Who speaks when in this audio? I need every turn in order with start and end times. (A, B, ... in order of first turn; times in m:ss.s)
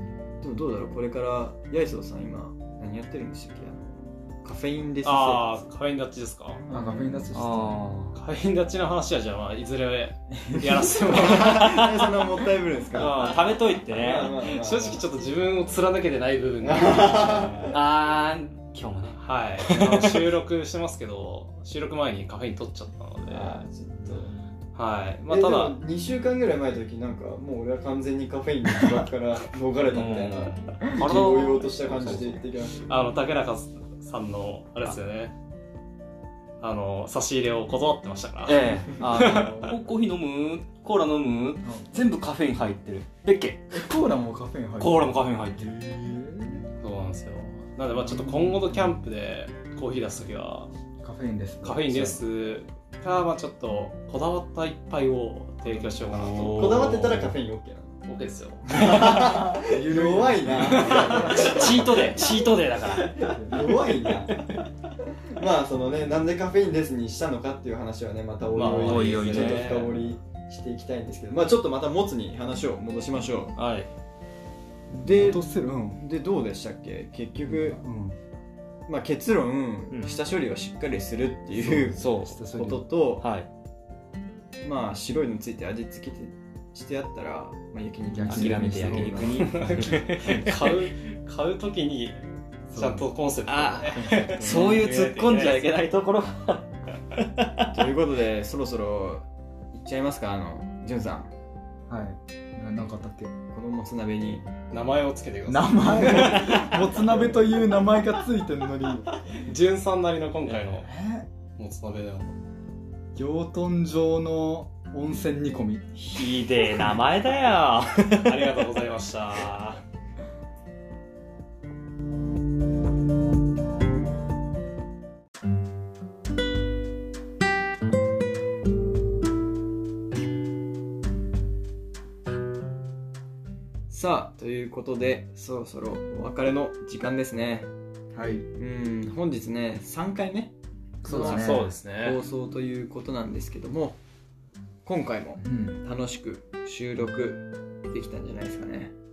0:00.4-0:05.6 A
0:05.0-0:06.6 B
0:06.7-0:07.2 A
0:06.7-0:07.8 C
0:07.3-0:08.2 D
0:08.1-0:11.6 B
0:10.5-0:11.1 C
0:11.0-0:15.0 A
0:11.4-0:12.1 D
0:12.9-0:14.3 D
0:14.3-0:17.6 B
0:16.6-0:17.8 A
0:17.7-0:19.2 D
0:19.2-0:23.6 B
0:19.7-0:20.2 D
0:23.3-0:24.3 A
0:24.0-0:24.3 C
0:24.7-0:25.8 B
0:25.3-0:33.0 A
0:28.8-0:29.0 C
0:29.9-0:32.4 D
0:32.9-0:35.3 B
0:36.6-0:39.7 B
0:38.4-0:43.9 D
0:39.4-0:39.7 C
0:41.6-0:42.0 C
0:43.7-0:46.6 C
0:44.8-0:45.7 D
0:46.8-0:50.7 B
0:48.0-0:49.0 C
0:51.0-0:52.2 C
0:51.6-0:57.2 B
0:55.6-0:56.3 C
0:56.1-0:56.8 D
0:56.3-0:58.0 A
0:58.0-0:58.8 B
0:58.7-1:02.3 A
0:58.8-1:02.0 C
1:00.7-1:01.6 B
1:01.0-1:03.2 D
1:03.0-1:04.4 A
1:03.1-1:04.2 C
1:04.3-1:04.6 D
1:04.9-1:13.6 A
1:08.5-1:10.0 D
1:08.9-1:09.6 B
1:13.6-1:13.9 D
1:14.9-1:16.0 C
1:15.0-1:17.8 A
1:17.4-1:18.2 C
1:18.9-1:23.3 A
1:21.5-1:22.9 C
1:22.0-1:22.4 D
1:23.2-1:23.5 D
1:24.6-1:29.5 A
1:28.1-1:29.6 C
1:28.3-1:30.7 D
1:29.4-1:32.2 B
1:32.7-1:33.1 C
1:32.7-1:35.7 B
1:33.4-1:37.7 D
1:34.0-1:34.8 A
1:34.2-1:34.6 C
1:37.7-1:41.3 A
1:41.9-1:43.3 C
1:43.5-1:44.5 A
1:44.7-1:47.1 B
1:45.4-1:49.1 C
1:46.3-1:46.7 D
1:49.4-1:50.9 B
1:50.6-1:51.2 C
1:51.5-1:52.3 B
1:53.1-1:56.4 C
1:56.0-1:58.5 D
1:58.2-1:59.8 B
2:13.9-2:17.7 A
2:18.1-2:18.4 C
2:18.6-2:20.5 A
2:21.0-2:21.6 C
2:21.0-2:22.2 B
2:21.0-2:24.0 A
2:24.8-2:28.9 A
2:25.4-2:25.8 C